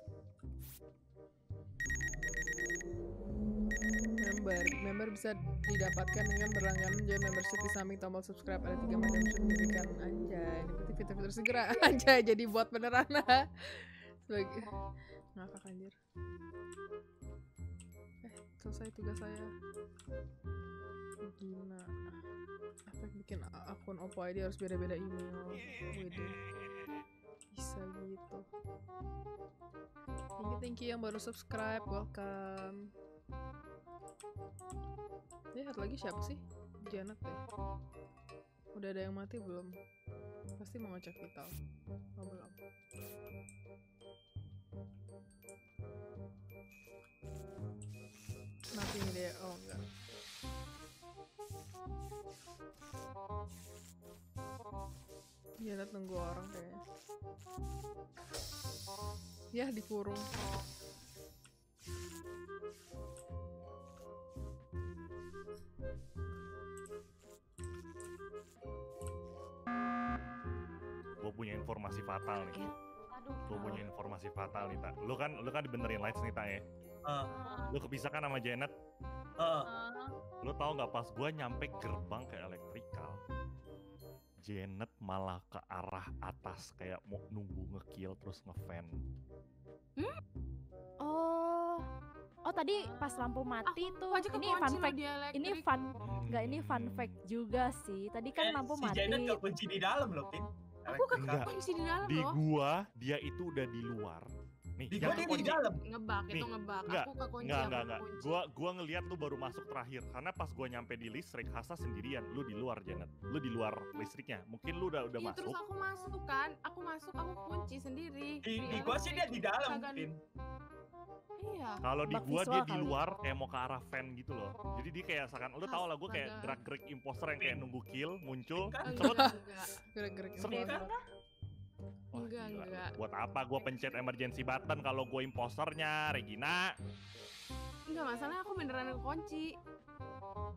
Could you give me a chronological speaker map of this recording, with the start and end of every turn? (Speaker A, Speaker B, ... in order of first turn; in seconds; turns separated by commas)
Speaker A: 4.2-14.7, Speaker A: 15.3-15.9, Speaker A: 18.2-19.5, Speaker A: 21.2-22.0, Speaker A: 22.9-26.4, Speaker A: 27.5-28.5, Speaker A: 30.4-32.9, Speaker A: 35.5-37.4, Speaker A: 38.7-39.8, Speaker A: 40.6-41.5, Speaker A: 42.2-42.5, Speaker A: 48.7-49.8, Speaker A: 55.6-56.8, Speaker A: 59.5-60.2, Speaker B: 71.2-72.6, Speaker C: 72.4-72.7, Speaker D: 73.1-73.9, Speaker B: 73.5-76.6, Speaker D: 77.2-77.8, Speaker B: 77.7-78.7, Speaker E: 79.4-79.7, Speaker D: 79.6-80.1, Speaker B: 80.4-83.2, Speaker B: 84.4-88.9, Speaker C: 91.0-91.9, Speaker C: 92.4-99.4, Speaker D: 92.7-95.7, Speaker B: 96.0-97.2, Speaker E: 98.3-101.4, Speaker D: 100.9-102.4, Speaker B: 101.1-104.3, Speaker B: 104.8-105.6, Speaker E: 104.9-105.8, Speaker D: 105.2-108.4, Speaker B: 106.3-115.6, Speaker D: 115.1-120.1, Speaker E: 118.4-120.1, Speaker D: 121.4-121.8, Speaker B: 121.8-129.3, Speaker C: 122.0-123.0, Speaker D: 125.6-126.6, Speaker E: 127.4-127.6, Speaker D: 128.8-129.8, Speaker A: 129.0-129.4, Speaker A: 129.9-130.9, Speaker D: 130.4-131.0, Speaker B: 132.1-136.7, Speaker D: 132.1-133.0, Speaker D: 133.6-134.0, Speaker D: 137.9-139.6